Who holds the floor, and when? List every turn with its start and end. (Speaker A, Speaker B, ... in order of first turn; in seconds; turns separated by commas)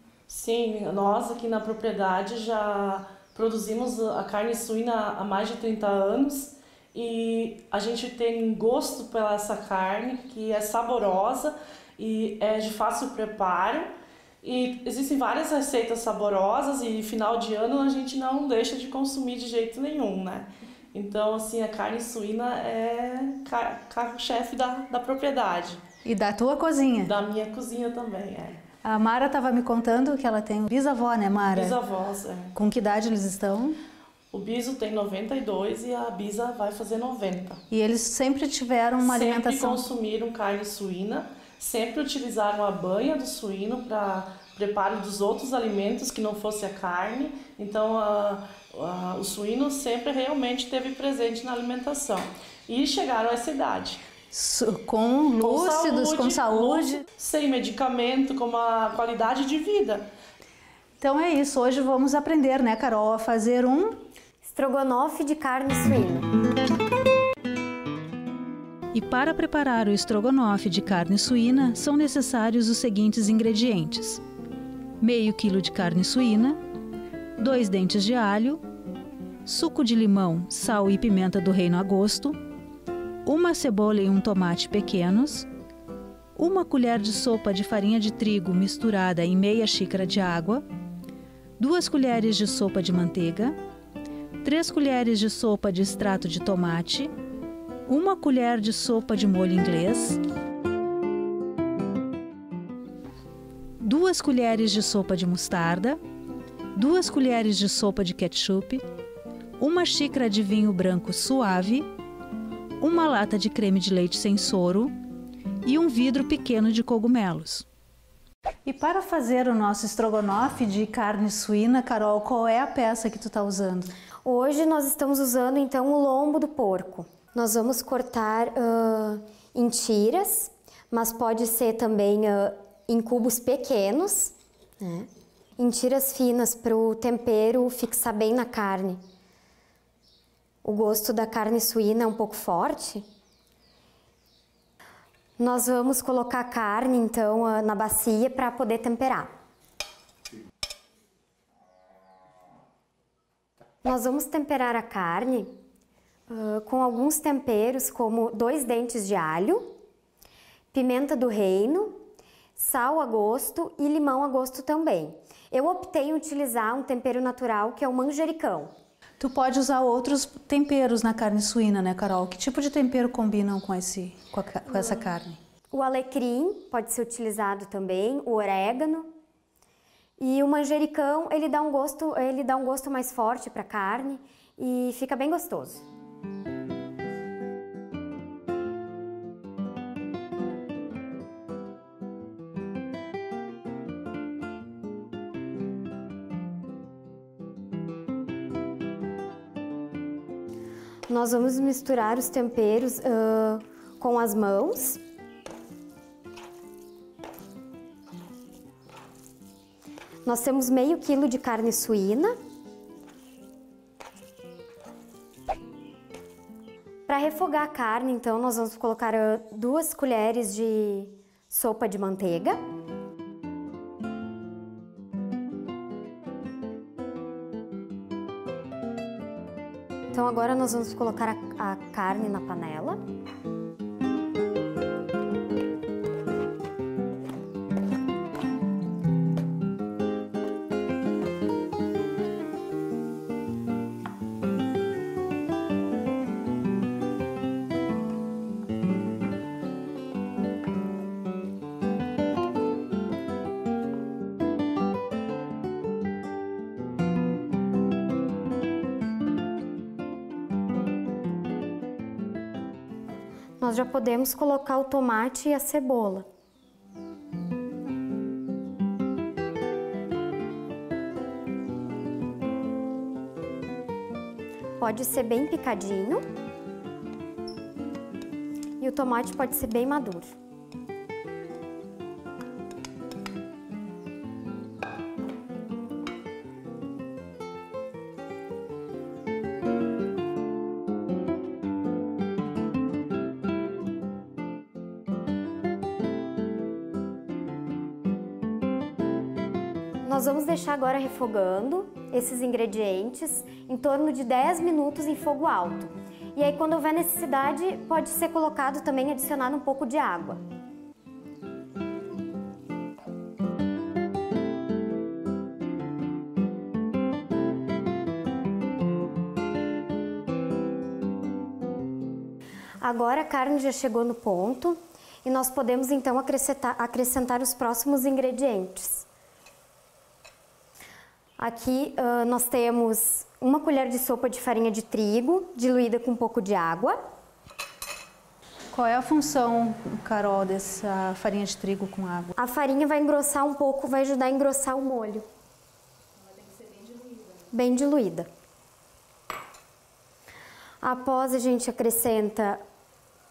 Speaker A: 0.3-13.9, Speaker A: 14.4-25.8, Speaker B: 26.0-27.1, Speaker A: 27.0-28.6, Speaker B: 28.8-31.8, Speaker A: 31.5-32.5, Speaker B: 32.5-33.8, Speaker A: 34.3-37.6, Speaker B: 37.7-39.8, Speaker A: 39.0-54.0, Speaker B: 54.3-57.0, Speaker A: 55.4-60.1, Speaker B: 61.0-64.0, Speaker C: 64.4-66.3, Speaker B: 68.9-74.2, Speaker B: 75.0-76.6, Speaker B: 77.4-78.6, Speaker B: 79.4-82.4, Speaker B: 83.2-85.5, Speaker B: 86.3-90.6, Speaker B: 91.6-93.5, Speaker B: 94.4-97.1, Speaker B: 97.8-100.2, Speaker B: 103.8-106.0, Speaker B: 106.7-108.8, Speaker B: 109.6-111.9, Speaker B: 112.8-114.9, Speaker B: 115.6-117.7, Speaker B: 118.6-123.9, Speaker C: 124.2-139.0, Speaker C: 140.6-143.0, Speaker C: 145.4-149.3, Speaker C: 153.8-155.5, Speaker C: 156.3-159.6, Speaker C: 160.7-162.0, Speaker C: 162.6-168.7, Speaker B: 169.2-175.4, Speaker C: 175.7-179.1, Speaker C: 180.2-185.8, Speaker C: 201.1-205.0, Speaker C: 210.2-212.3, Speaker C: 217.1-222.6, Speaker C: 230.1-233.0, Speaker C: 263.6-266.2, Speaker C: 274.8-276.2, Speaker C: 278.8-280.3, Speaker C: 300.0-310.4, Speaker C: 322.8-329.1, Speaker C: 331.4-337.0, Speaker B: 338.7-342.3, Speaker C: 342.4-345.2, Speaker C: 347.4-348.3, Speaker C: 350.8-352.6